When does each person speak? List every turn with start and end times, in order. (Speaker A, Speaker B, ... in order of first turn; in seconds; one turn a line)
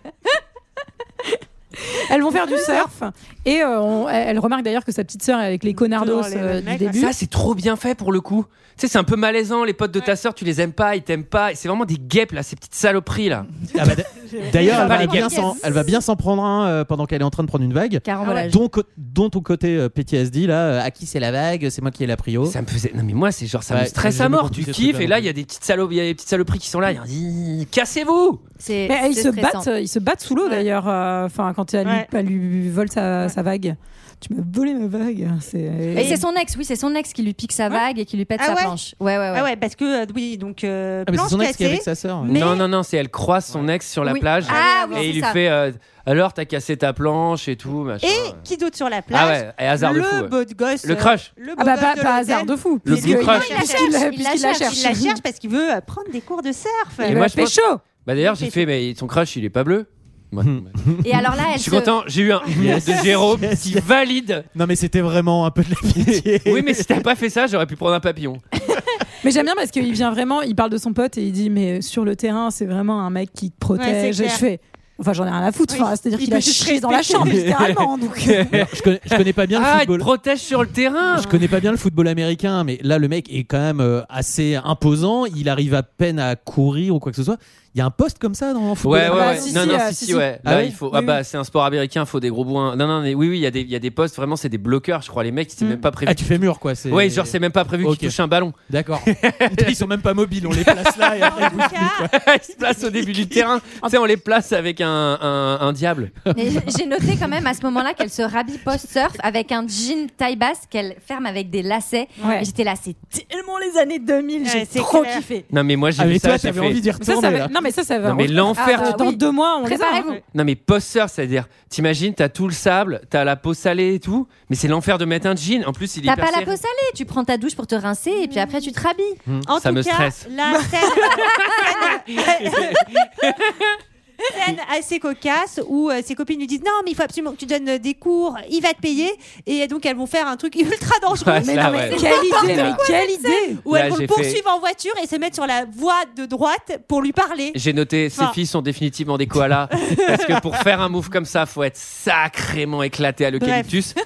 Speaker A: 2.0-7.1
Speaker B: 2.5-2.9
Speaker B: 5.8-7.0
Speaker C: 6.9-13.5
Speaker D: 13.7-22.6
Speaker E: 14.6-15.9
Speaker C: 14.7-15.3
Speaker E: 18.1-18.6
Speaker C: 22.4-28.4
Speaker D: 23.7-25.3
Speaker E: 28.6-29.7
Speaker A: 28.9-36.2
Speaker B: 31.8-32.1
Speaker E: 35.9-39.5
Speaker B: 36.0-36.2
Speaker B: 38.4-38.7
Speaker B: 39.3-42.6
Speaker D: 41.1-42.4
Speaker C: 42.3-48.4
Speaker E: 44.0-45.4
Speaker B: 44.5-45.1
Speaker B: 48.0-57.2
Speaker C: 49.1-51.3
Speaker A: 51.6-55.2
Speaker C: 52.9-53.5
Speaker E: 53.3-54.9
Speaker C: 57.0-60.8
Speaker A: 57.0-57.8
Speaker B: 58.2-58.7
Speaker D: 60.4-61.1
Speaker E: 61.0-61.9
Speaker C: 61.6-64.5
Speaker D: 62.5-63.9
Speaker D: 64.5-67.0
Speaker C: 66.0-68.4
Speaker A: 69.2-78.6
Speaker B: 73.8-74.4
Speaker B: 75.7-77.5
Speaker C: 77.2-78.6
Speaker D: 78.5-80.1
Speaker C: 79.1-81.4
Speaker D: 81.1-89.8
Speaker C: 88.8-96.2
Speaker A: 89.0-90.4
Speaker D: 90.4-90.8
Speaker A: 90.9-91.2
Speaker D: 96.0-98.2
Speaker C: 96.9-99.8
Speaker D: 98.7-102.1
Speaker C: 100.5-106.2
Speaker B: 101.2-102.1
Speaker D: 106.3-106.8
Speaker E: 106.3-113.3
Speaker A: 113.2-115.4
Speaker B: 114.4-115.3
Speaker C: 115.5-116.8
Speaker D: 116.0-117.5
Speaker A: 117.0-120.2
Speaker C: 118.0-119.0
Speaker E: 118.5-120.1
Speaker C: 120.3-126.5
Speaker E: 126.0-129.2
Speaker B: 129.5-132.9
Speaker C: 129.6-130.3
Speaker C: 131.8-133.7
Speaker B: 134.3-147.6
Speaker C: 141.2-142.8
Speaker A: 141.5-143.6
Speaker E: 141.7-143.2
Speaker C: 143.7-144.4
Speaker C: 147.5-154.0
Speaker B: 149.9-150.4
Speaker B: 153.4-153.7